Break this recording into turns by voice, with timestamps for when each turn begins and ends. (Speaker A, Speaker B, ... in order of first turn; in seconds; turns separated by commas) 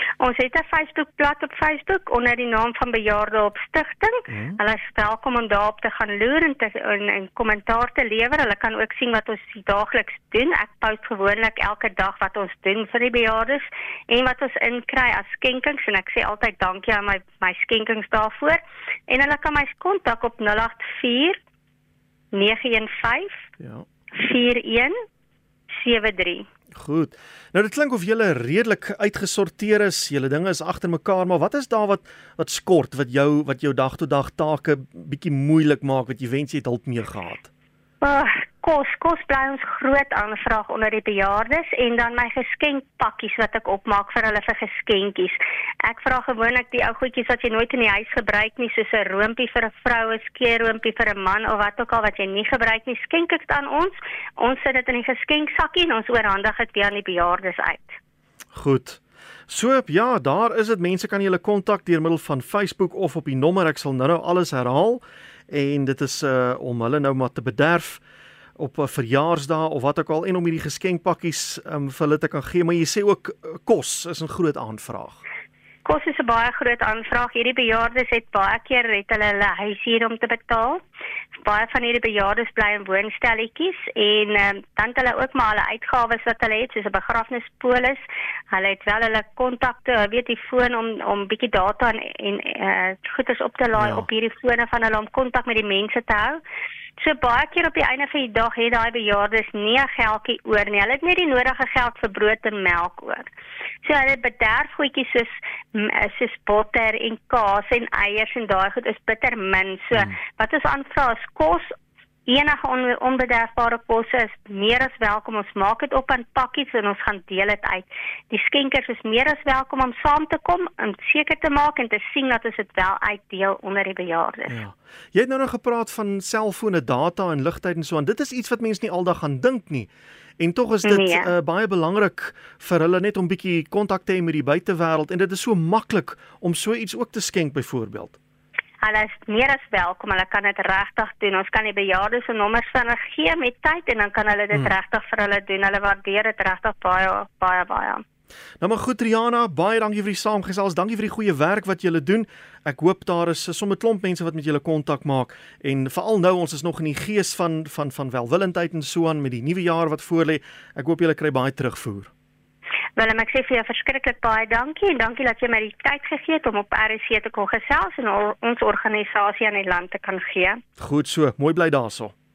Speaker A: 0.2-21.4, Speaker B: 4.3-4.6, Speaker A: 22.3-23.4, Speaker B: 23.6-23.8, Speaker A: 24.1-24.9, Speaker A: 25.7-26.5, Speaker B: 26.7-37.5, Speaker A: 38.0-58.0, Speaker B: 58.5-68.0, Speaker B: 68.6-75.2, Speaker A: 75.8-80.8, Speaker A: 81.3-96.4, Speaker B: 93.8-94.0, Speaker A: 97.0-103.3, Speaker A: 103.8-111.7, Speaker A: 112.3-124.6, Speaker B: 124.5-138.2, Speaker A: 130.8-131.3, Speaker A: 138.8-148.0, Speaker B: 148.6-162.1, Speaker A: 163.0-170.6, Speaker B: 170.8-172.1